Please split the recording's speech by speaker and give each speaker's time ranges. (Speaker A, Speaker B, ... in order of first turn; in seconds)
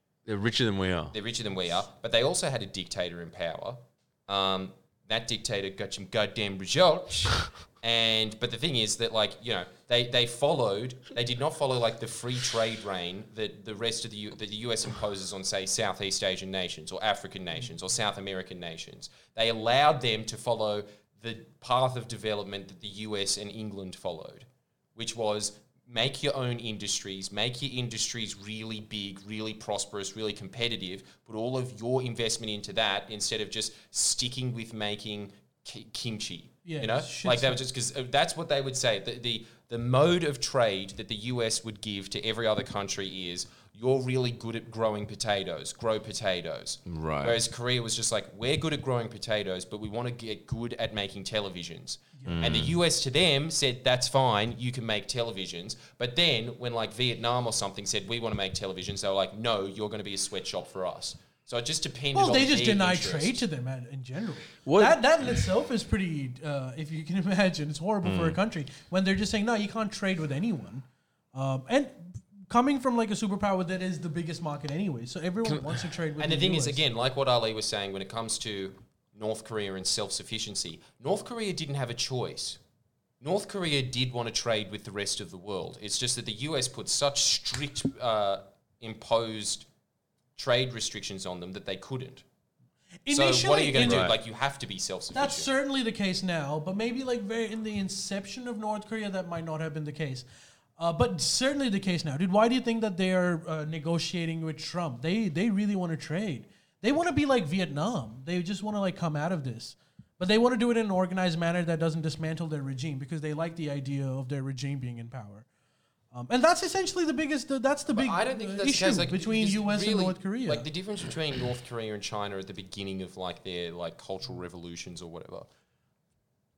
Speaker A: 0.3-1.1, 46.9-47.4, 52.2-52.8, 64.7-65.0, 68.0-68.4, 75.4-75.8, 93.8-94.2
Speaker B: 1.1-63.4, 76.2-82.6, 83.2-89.7, 90.3-92.2, 93.1-95.5, 118.0-125.5
Speaker C: 36.6-37.6, 62.1-76.8, 93.1-94.1, 95.1-100.2, 100.8-115.5, 116.1-120.7